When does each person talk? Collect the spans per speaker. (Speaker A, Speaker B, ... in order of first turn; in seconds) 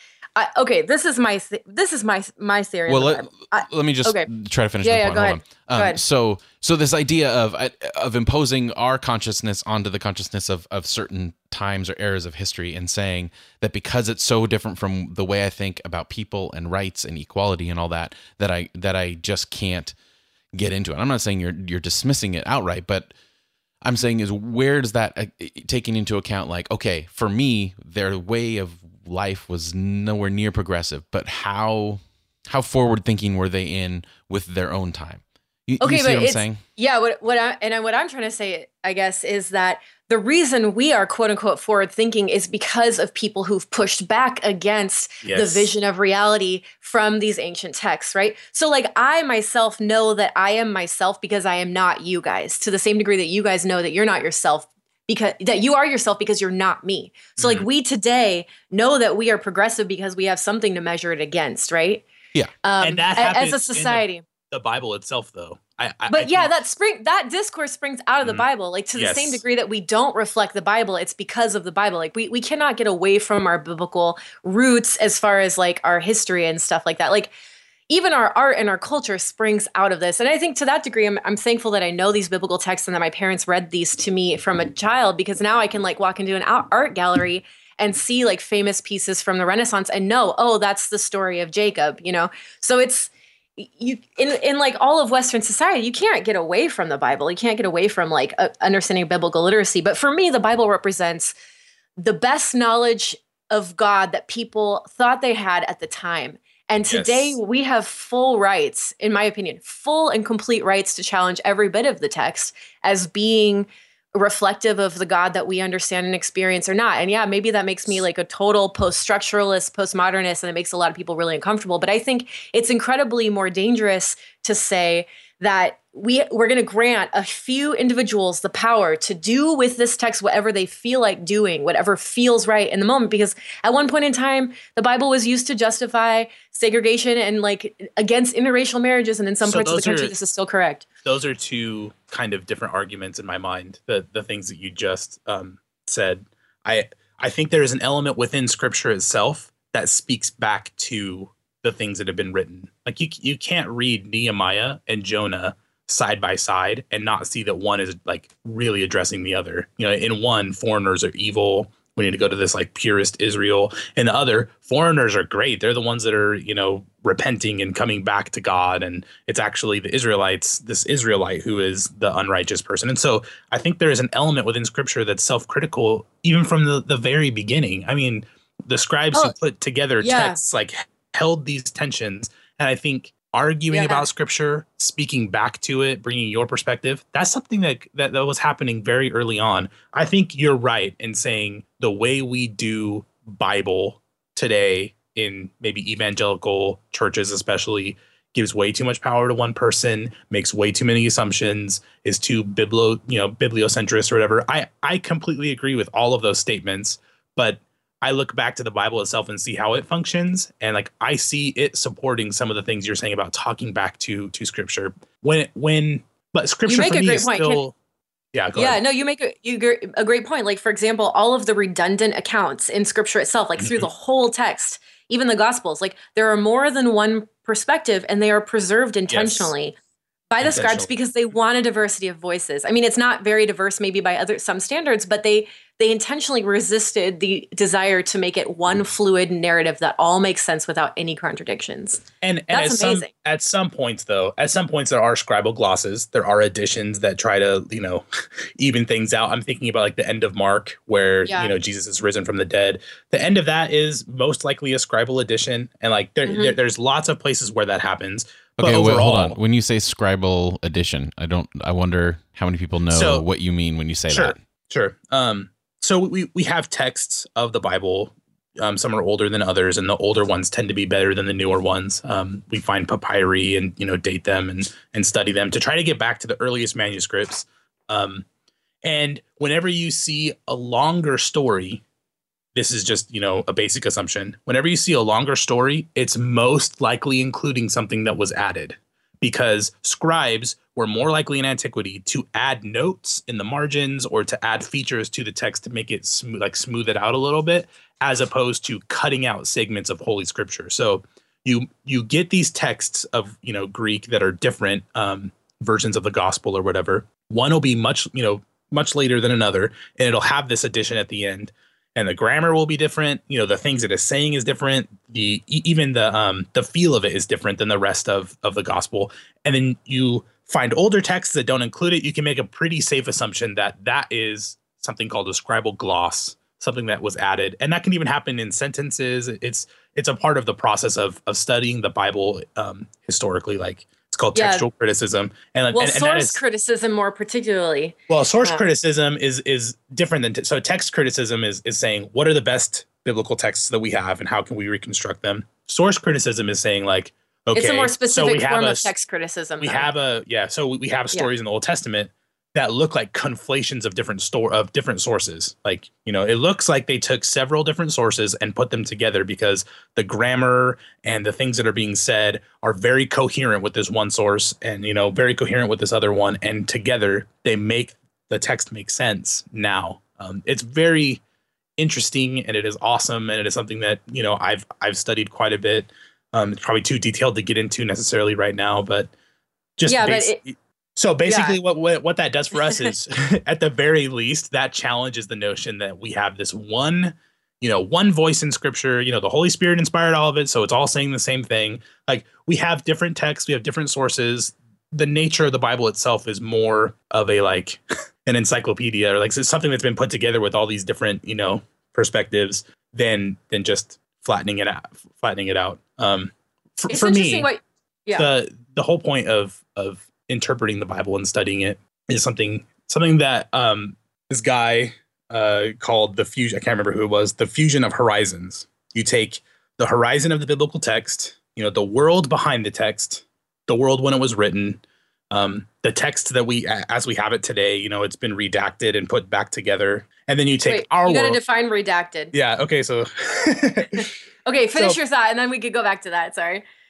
Speaker A: 0.3-4.3, 4.8-6.0, 35.8-62.0, 62.6-64.2, 66.1-77.3, 77.9-101.3, 102.0-140.8, 180.0-180.4, 183.7-184.1, 216.7-217.6, 218.6-229.8, 230.3-243.1, 251.3-251.5, 256.2-256.6, 334.3-334.7, 335.7-338.6, 347.5-349.9, 379.9-380.4, 381.3-381.6, 406.9-408.3, 430.7-432.3, 434.4-436.6
Speaker B: 2.9-19.9, 20.5-23.1, 23.8-36.6, 258.6-264.4
Speaker C: 45.2-45.7, 57.4-57.7, 62.8-66.5, 68.2-69.4, 106.9-107.3, 139.4-140.1, 141.0-217.7, 218.3-218.8, 223.6-223.9, 229.1-229.5, 230.4-230.9, 242.2-259.4, 262.9-263.2, 264.1-278.2, 278.8-281.8, 282.5-336.4, 338.1-348.9, 349.6-371.2, 371.8-379.1, 379.8-407.5, 408.1-431.4, 432.3-434.1